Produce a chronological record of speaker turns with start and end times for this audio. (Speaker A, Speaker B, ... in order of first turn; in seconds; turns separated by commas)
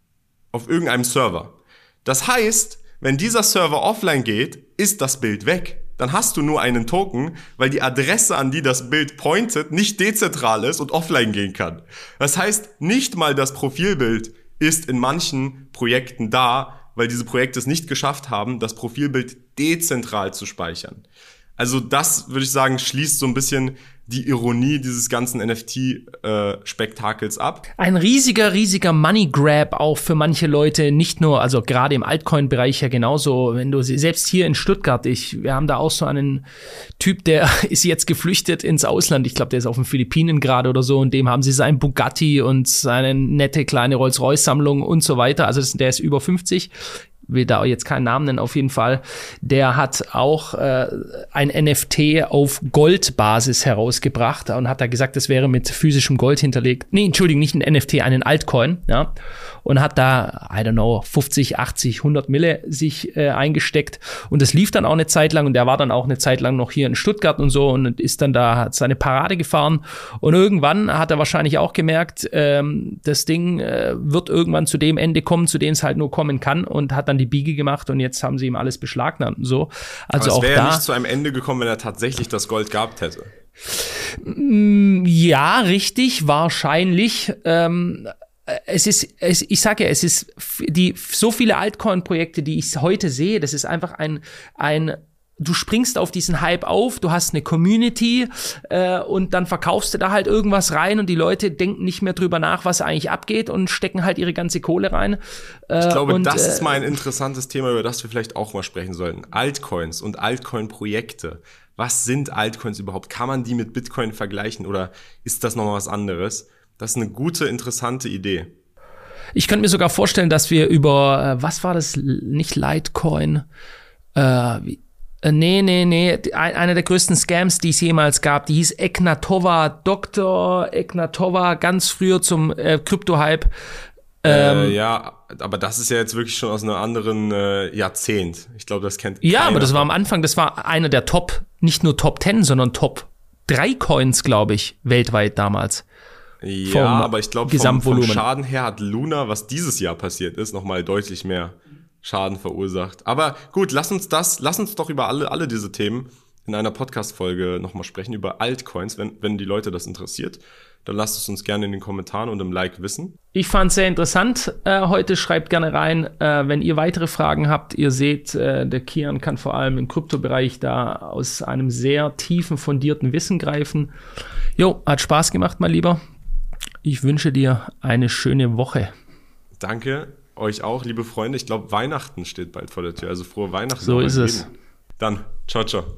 Speaker A: 0.5-21.0, Speaker A: 21.6-27.6, Speaker B: 27.8-36.4, Speaker B: 37.0-46.7, Speaker B: 47.3-59.1, Speaker B: 59.6-80.8, Speaker A: 80.2-83.3, Speaker B: 83.7-106.9, Speaker A: 105.8-118.5, Speaker B: 119.3-123.5, Speaker B: 124.2-133.5, Speaker B: 134.2-134.8, Speaker A: 134.3-139.9, Speaker B: 139.2-145.8, Speaker A: 146.4-163.1, Speaker B: 146.6-148.2, Speaker B: 163.3-173.9, Speaker B: 174.6-176.0, Speaker B: 176.8-178.9, Speaker A: 179.6-185.9, Speaker B: 183.8-184.5